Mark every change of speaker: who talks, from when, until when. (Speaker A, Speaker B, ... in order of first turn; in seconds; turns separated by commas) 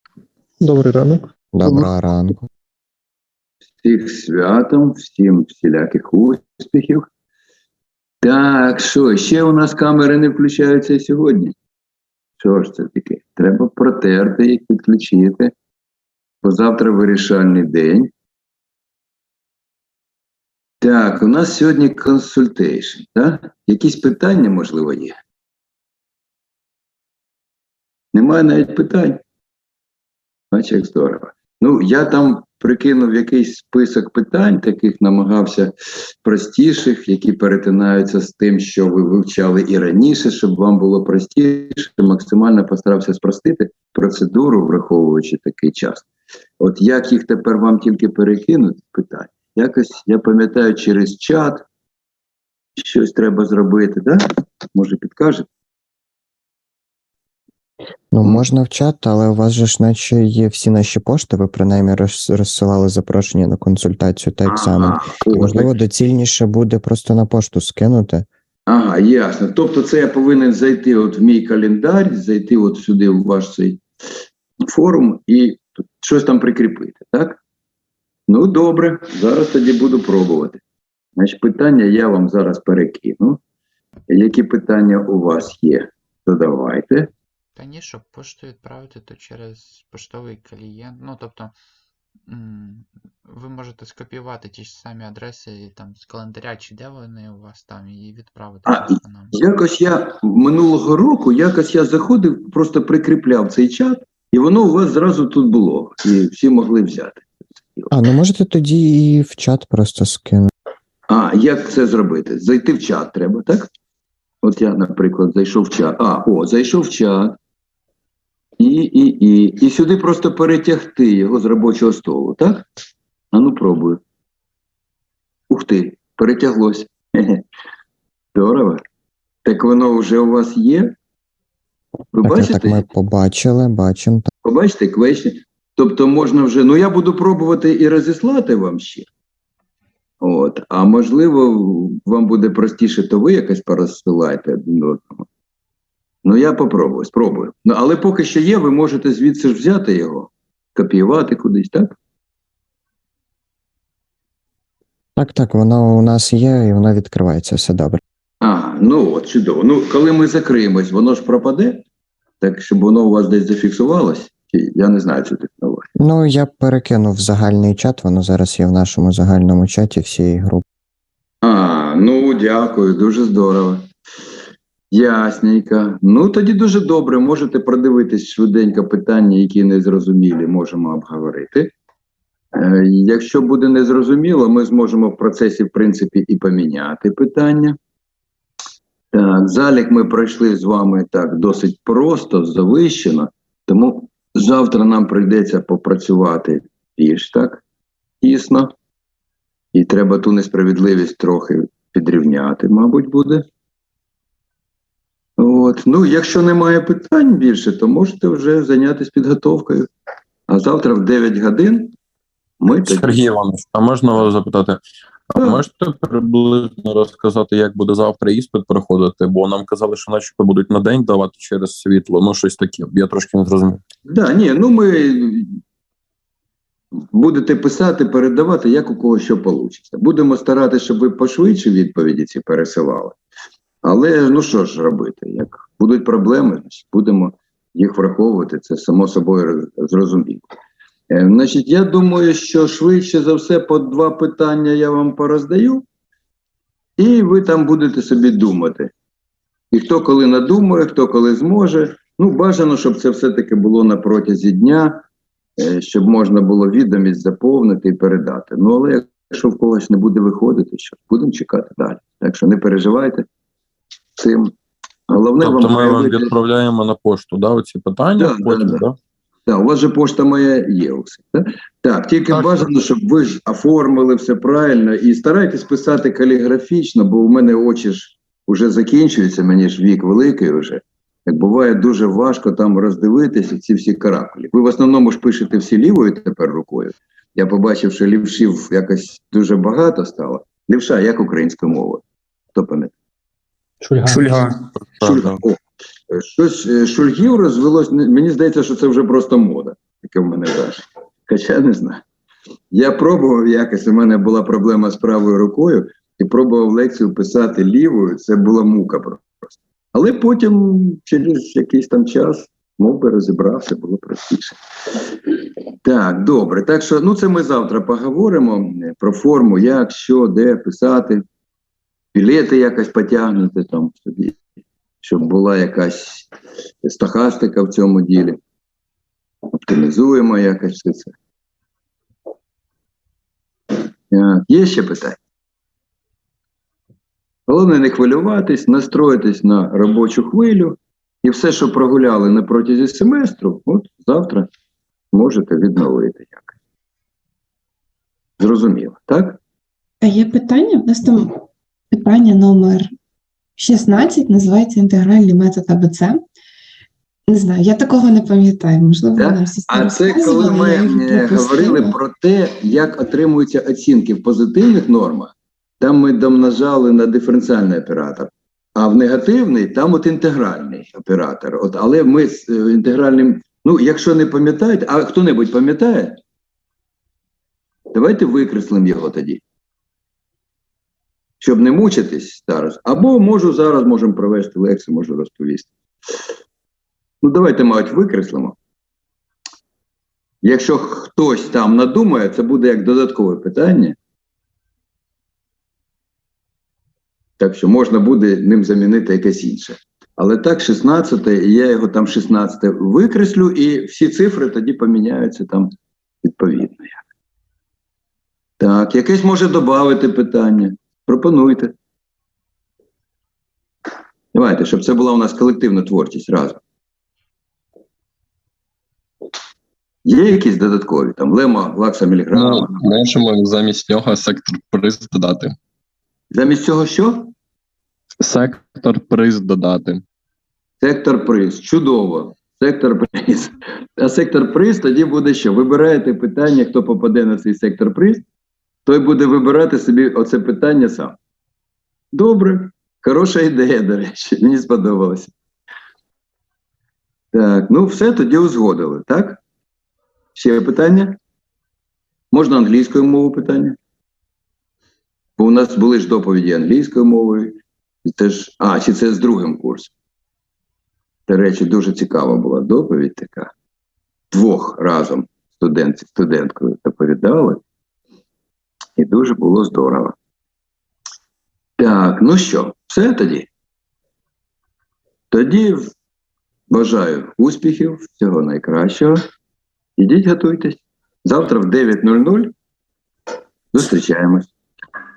Speaker A: 1.5-2.5, Speaker B: 3.8-7.0, Speaker B: 8.2-11.5, Speaker B: 12.4-15.5, Speaker B: 16.4-18.1, Speaker B: 20.8-25.1, Speaker B: 28.1-29.2, Speaker B: 30.5-46.1, Speaker B: 46.6-51.6, Speaker B: 52.8-54.2, Speaker B: 54.7-55.5, Speaker A: 58.1-68.2, Speaker B: 64.5-65.7, Speaker B: 68.7-73.8, Speaker B: 74.7-77.4, Speaker B: 78.3-80.6, Speaker B: 81.2-83.4, Speaker B: 84.1-87.1, Speaker C: 87.5-91.5, Speaker C: 92.3-99.3, Speaker B: 98.6-107.9, Speaker A: 107.9-110.5, Speaker B: 111.1-113.7, Speaker B: 114.4-117.3, Speaker B: 118.6-122.6, Speaker B: 123.3-124.0, Speaker B: 125.5-127.4, Speaker B: 128.3-128.8, Speaker B: 129.4-130.9, Speaker B: 132.1-132.8, Speaker A: 132.2-134.3, Speaker B: 134.4-139.1, Speaker B: 140.2-145.2, Speaker B: 146.2-151.9, Speaker A: 155.2-158.0, Speaker B: 158.4-161.8, Speaker B: 162.4-165.8, Speaker A: 166.0-170.6, Speaker B: 171.4-173.8, Speaker B: 174.9-181.7, Speaker B: 182.5-187.8, Speaker B: 189.1-197.6, Speaker B: 198.2-198.7, Speaker B: 199.7-203.4, Speaker B: 205.4-209.9, Speaker B: 210.5-211.9, Speaker B: 212.6-213.3, Speaker D: 212.8-214.8, Speaker D: 215.3-223.8, Speaker B: 215.4-215.6, Speaker B: 224.1-225.5, Speaker B: 227.1-233.2, Speaker B: 233.8-240.5, Speaker B: 241.1-245.8, Speaker B: 247.0-248.9, Speaker B: 249.7-255.0, Speaker B: 255.6-263.2, Speaker B: 264.2-264.5, Speaker B: 265.1-266.3, Speaker D: 265.4-269.0, Speaker B: 268.2-268.8, Speaker B: 269.5-292.9, Speaker D: 272.3-272.6, Speaker D: 294.1-295.4, Speaker B: 295.0-295.6, Speaker B: 296.1-302.0, Speaker B: 302.7-321.2, Speaker B: 322.1-324.4, Speaker B: 325.0-326.3, Speaker B: 326.8-328.4, Speaker B: 329.6-331.1, Speaker B: 334.1-335.2, Speaker B: 337.5-344.5, Speaker B: 345.1-346.5, Speaker B: 348.4-349.4, Speaker E: 350.0-351.3, Speaker E: 351.9-352.9, Speaker E: 353.6-356.2, Speaker E: 357.3-361.9, Speaker B: 359.1-376.2, Speaker B: 377.9-379.4, Speaker B: 381.4-385.7, Speaker B: 387.2-388.6, Speaker B: 390.4-393.9, Speaker B: 397.4-405.7, Speaker B: 406.2-407.0, Speaker B: 408.6-411.7, Speaker B: 414.3-416.6, Speaker B: 420.0-422.8, Speaker F: 422.3-425.5, Speaker B: 426.3-427.3, Speaker F: 428.2-430.0, Speaker B: 430.8-438.2, Speaker B: 438.8-441.1, Speaker B: 442.1-445.3, Speaker B: 447.3-449.4, Speaker B: 450.3-451.1, Speaker B: 452.3-453.8, Speaker B: 455.4-457.5, Speaker B: 458.1-459.9, Speaker B: 461.3-463.5, Speaker B: 464.3-467.6, Speaker B: 469.0-470.1, Speaker B: 471.8-473.5, Speaker B: 475.3-475.9, Speaker B: 476.7-479.2, Speaker B: 480.0-482.5, Speaker B: 483.7-484.5